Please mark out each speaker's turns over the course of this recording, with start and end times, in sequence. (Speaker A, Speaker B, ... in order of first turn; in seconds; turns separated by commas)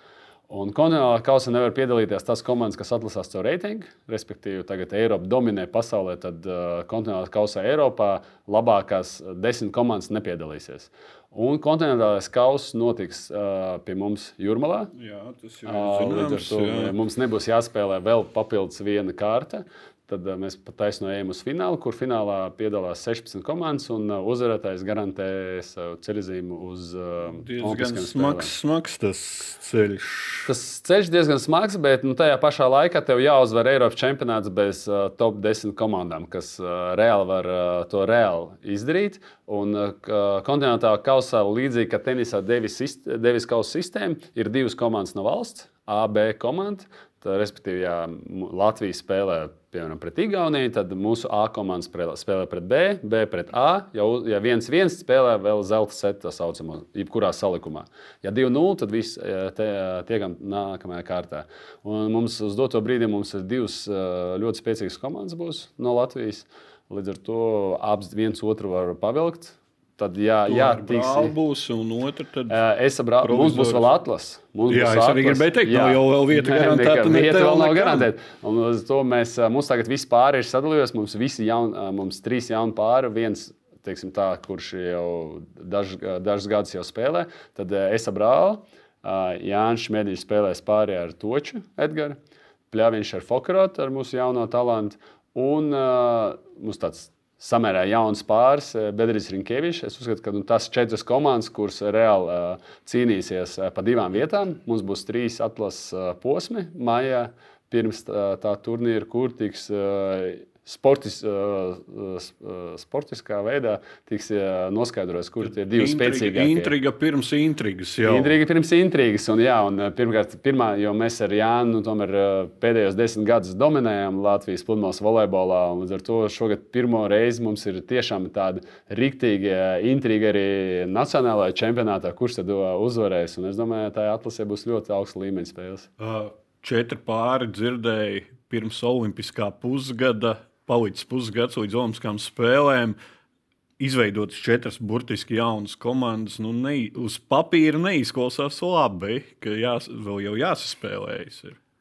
Speaker A: 0.5-14.9, Speaker B: 14.9-16.9, Speaker A: 15.6-28.5, Speaker B: 27.3-30.5, Speaker A: 30.4-71.3, Speaker B: 70.5-72.6, Speaker A: 72.5-92.2, Speaker B: 73.2-73.9, Speaker B: 74.7-78.1, Speaker A: 92.7-116.7, Speaker B: 115.4-118.4, Speaker A: 118.0-135.9, Speaker B: 136.0-143.0, Speaker B: 143.8-151.6